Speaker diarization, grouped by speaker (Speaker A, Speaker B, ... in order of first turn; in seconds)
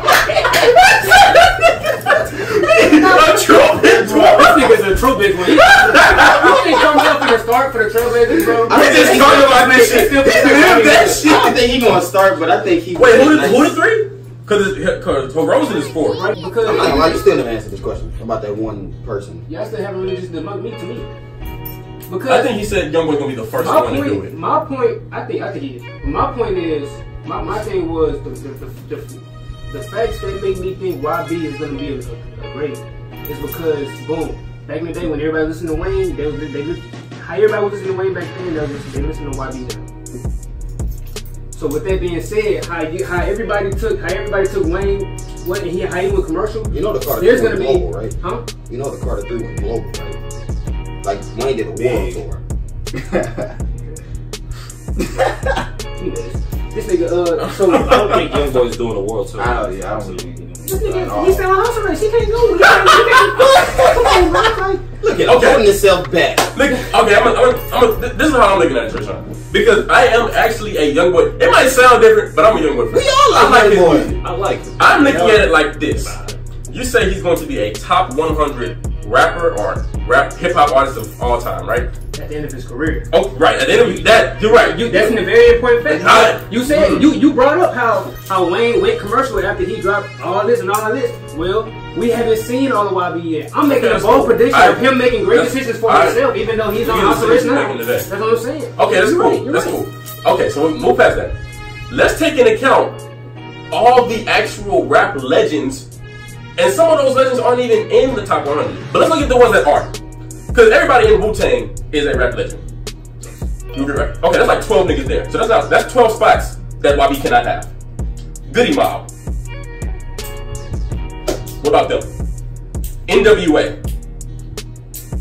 Speaker A: 0.5-4.8, 5.4-7.0, 8.7-11.6, 12.9-16.2, 22.2-24.3, 57.4-58.0, 62.7-63.6, 65.2-65.7, 66.5-74.2, 74.8-76.2, 76.7-81.9, 83.1-85.2, 85.8-87.1, 93.6-98.1, 98.8-101.3, 101.9-103.0, 103.7-105.8, 106.5-109.9, 110.5-112.6, 113.7-117.7, 118.5-119.1, 121.6-122.0, 123.1-123.8
Speaker B: 2.1-4.2, 8.6-9.6, 11.2-13.7, 16.6-19.4, 46.7-50.2, 51.0-52.4, 63.4-66.5, 72.9-74.1
Speaker C: 3.9-4.3, 51.8-52.2, 52.9-53.5, 55.1-55.6, 59.4-61.4
Speaker D: 4.1-11.2, 16.1-17.2, 19.5-21.1, 22.1-22.5, 23.6-39.9, 41.5-48.4, 56.0-58.2, 60.6-64.2, 82.1-83.1, 84.0-99.8
Speaker E: 57.7-60.3, 74.2-76.4